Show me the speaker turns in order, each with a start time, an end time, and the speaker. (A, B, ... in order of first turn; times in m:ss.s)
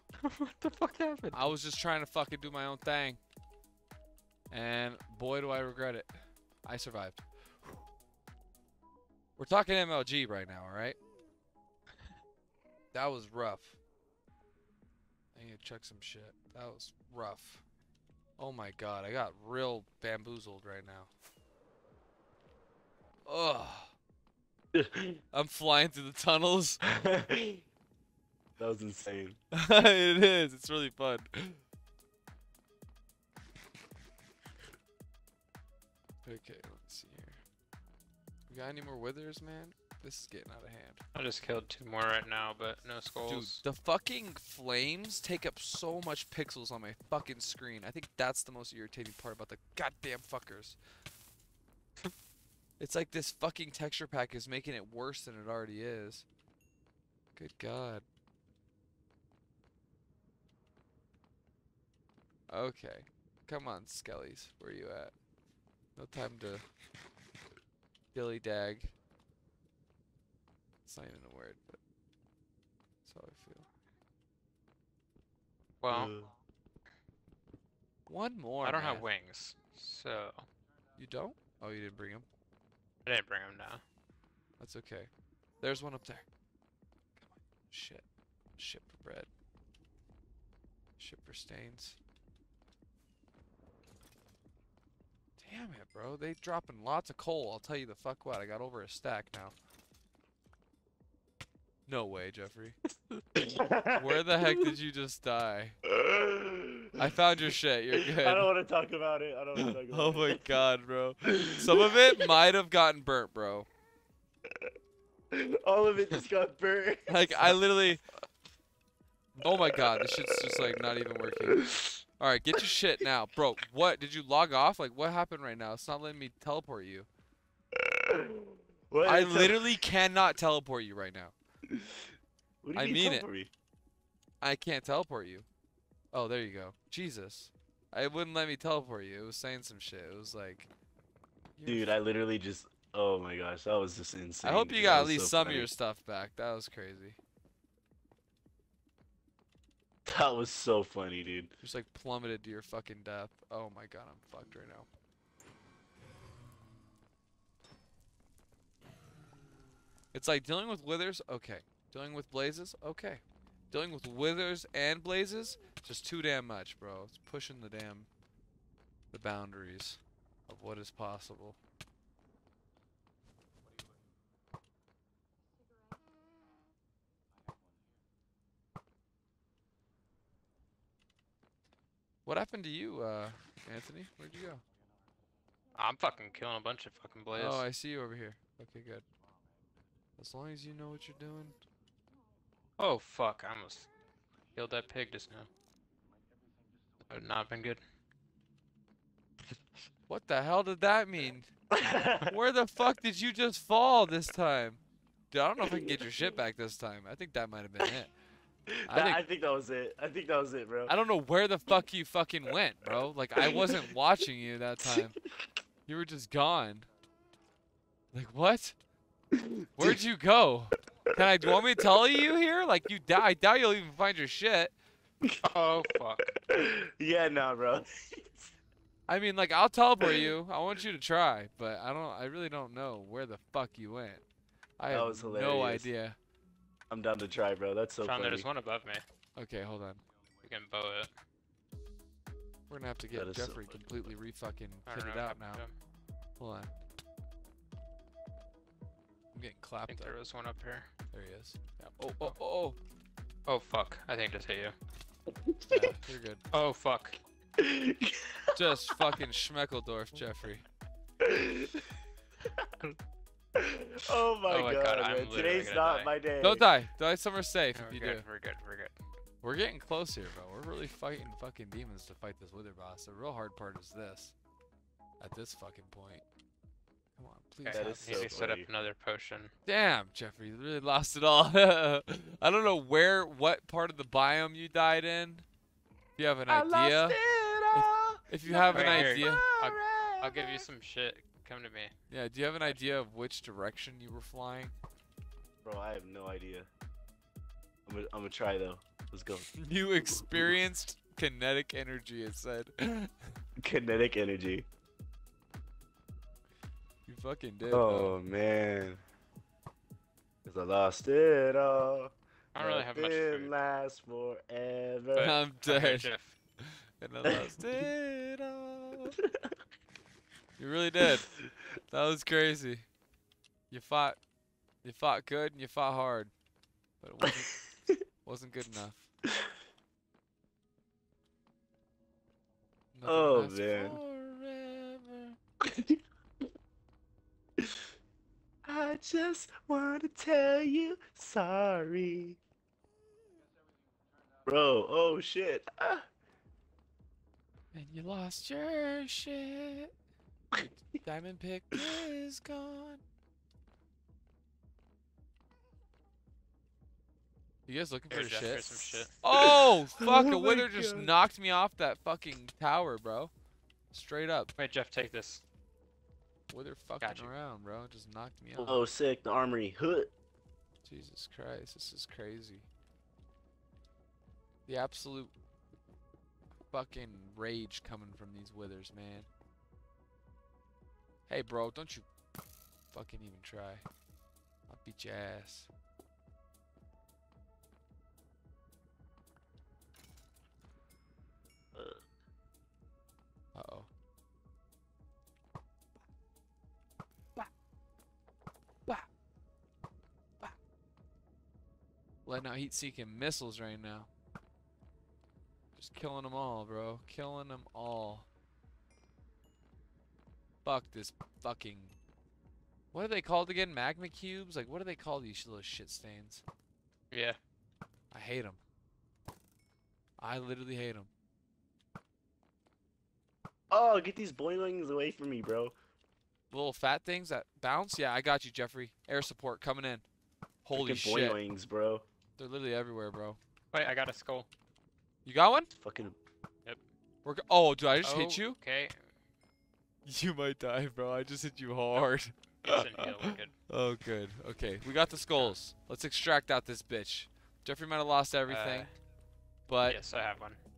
0:00.2-0:01.5 A
0:01.3-0:03.2 B
0:04.5-0:06.1 B
0:06.6-0:07.8 B
0:09.4-0:11.0 B
0:12.9-0:13.8 B
0:15.3-0:17.6 B
0:18.4-0:21.1 B
0:23.2-0:23.9 B
0:24.7-0:25.2 C
0:25.3-0:27.1 B
0:26.9-0:27.6 C
0:28.6-0:29.4 C
0:29.5-0:31.6 B
0:36.2-0:37.4 B
0:38.5-0:41.0 B
0:41.1-0:43.6 A
0:43.3-0:50.8 B
0:52.8-0:56.2 B
0:57.3-0:58.0 B
1:02.5-1:05.1 B
1:06.0-1:06.6 B
1:08.1-1:08.9 B
1:10.8-1:11.8 B
1:13.0-1:13.6 B
1:15.8-1:16.1 A
1:15.9-1:16.3 C
1:18.1-1:19.0 B
1:18.6-1:20.4 A
1:21.0-1:22.2 B
1:23.0-1:23.8 A
1:24.6-1:25.1 B
1:25.6-1:26.2 B
1:27.2-1:28.0 B
1:28.6-1:29.3 B
1:31.0-1:32.0 B
1:35.4-1:39.5 B
1:41.9-1:42.8 B
1:43.4-1:44.7 C
1:43.9-1:45.8 B
1:45.8-1:47.2 C
1:47.0-1:48.5 B
1:47.9-1:50.6 C
1:49.6-1:53.7 B
1:51.3-1:52.3 C
1:54.4-1:54.7 C
1:55.3-1:57.6 C
1:57.1-1:58.0 B
1:59.4-2:07.1 B
1:59.7-2:00.1 C
2:01.5-2:01.9 C
2:07.7-2:09.7 C
2:09.0-2:11.3 B
2:11.7-2:13.5 C
2:12.7-2:13.2 B
2:14.4-2:15.4 B
2:16.1-2:20.7 B
2:21.6-2:21.9 B
2:21.6-2:25.7 C
2:24.4-2:27.2 B
2:30.0-2:31.5 C
2:31.6-2:34.9 B
2:40.1-2:48.1 B
2:49.1-2:51.6 B
3:02.2-3:04.6 B
3:05.7-3:07.6 A
3:07.3-3:09.0 B
3:10.2-3:11.6 B
3:12.8-3:13.9 A
3:14.5-3:15.5 A
3:17.1-3:17.8 A
3:20.1-3:28.1 B
3:21.7-3:22.3 C
3:25.6-3:26.1 C
3:28.7-3:30.9 C
3:28.9-3:29.2 B
3:30.9-3:35.2 B
3:33.4-3:33.9 C
3:34.8-3:35.1 C
3:35.9-3:36.9 B
3:38.1-3:38.8 B
3:39.3-3:40.0 C
3:39.8-3:44.7 B
3:41.2-3:41.6 C
3:45.4-3:46.3 A
3:46.4-3:48.5 C
3:49.1-3:54.2 B
3:50.0-3:50.3 C
3:54.8-3:56.2 B
3:54.9-3:55.9 C
3:56.9-3:58.5 C
3:58.0-3:59.0 A
3:59.4-4:00.0 B
4:00.4-4:01.1 A
4:02.7-4:05.6 B
4:03.1-4:03.8 C
4:04.9-4:05.7 A
4:06.4-4:06.7 B
4:09.3-4:10.1 B
4:09.9-4:10.9 A
4:11.1-4:12.8 B
4:13.5-4:14.8 A
4:15.3-4:16.0 C
4:15.7-4:16.4 B
4:16.5-4:17.2 A
4:17.6-4:19.2 C
4:18.5-4:20.6 B
4:21.2-4:21.8 C
4:22.5-4:22.9 C
4:23.5-4:26.7 C
4:24.4-4:26.1 A
4:26.4-4:28.2 B
4:27.7-4:28.9 A
4:29.4-4:34.3 B
4:35.2-4:36.2 B
4:37.2-4:38.4 B
4:37.6-4:39.5 A
4:37.7-4:38.7 C
4:39.6-4:45.4 B
4:46.2-4:47.2 B
4:46.5-4:50.7 C
4:47.7-4:49.4 B
4:48.7-4:51.9 A
4:52.1-4:54.7 B
4:55.6-4:56.7 C
4:57.8-4:59.5 C
4:59.5-5:03.4 B
5:00.0-5:00.5 C
5:03.6-5:04.6 C
5:07.0-5:08.2 B
5:07.7-5:09.0 C
5:10.4-5:15.3 C
5:12.5-5:13.5 A
5:15.1-5:16.4 A
5:15.2-5:16.1 B
5:16.6-5:19.2 B
5:17.2-5:17.8 C
5:19.2-5:19.6 C
5:20.6-5:21.3 B
5:21.9-5:22.8 B
5:23.7-5:24.2 B
5:24.8-5:26.3 B
5:27.0-5:27.6 B
5:27.2-5:28.0 C
5:28.2-5:29.1 B
5:29.2-5:29.5 C
5:32.9-5:35.4 B
5:33.0-5:34.0 C
5:35.6-5:36.0 C
5:37.6-5:37.9 C
5:38.6-5:42.4 C
5:44.4-5:46.1 C
5:47.7-5:49.9 B
5:50.5-5:53.0 B
5:57.7-6:03.3 B
5:58.1-5:59.1 A
5:59.3-6:01.1 C
6:03.9-6:04.5 B
6:04.6-6:05.4 A
6:06.5-6:08.8 B
6:07.0-6:07.3 A
6:08.6-6:10.1 C
6:10.8-6:12.7 B
6:14.7-6:15.3 B
6:16.7-6:19.3 B
6:21.3-6:22.0 B
6:22.9-6:23.8 B
6:24.7-6:25.7 B
6:31.7-6:32.0 C
6:33.5-6:33.9 B
6:42.2-6:44.1 B
6:45.8-6:48.2 B
6:50.6-6:52.0 B
6:52.9-6:56.4 B
6:57.1-6:57.4 A
6:58.1-6:58.6 B
7:00.2-7:01.1 B
7:03.7-7:05.7 C
7:06.5-7:10.0 B
7:10.6-7:11.4 B
7:10.7-7:12.0 C
7:12.4-7:13.4 B
7:13.7-7:14.5 A
7:15.2-7:15.7 B
7:15.8-7:16.2 C
7:17.2-7:18.6 B
7:18.0-7:19.0 A
7:20.0-7:28.9 B
7:22.6-7:23.5 A
7:28.4-7:28.9 A
7:29.7-7:30.0 B
7:29.9-7:30.6 A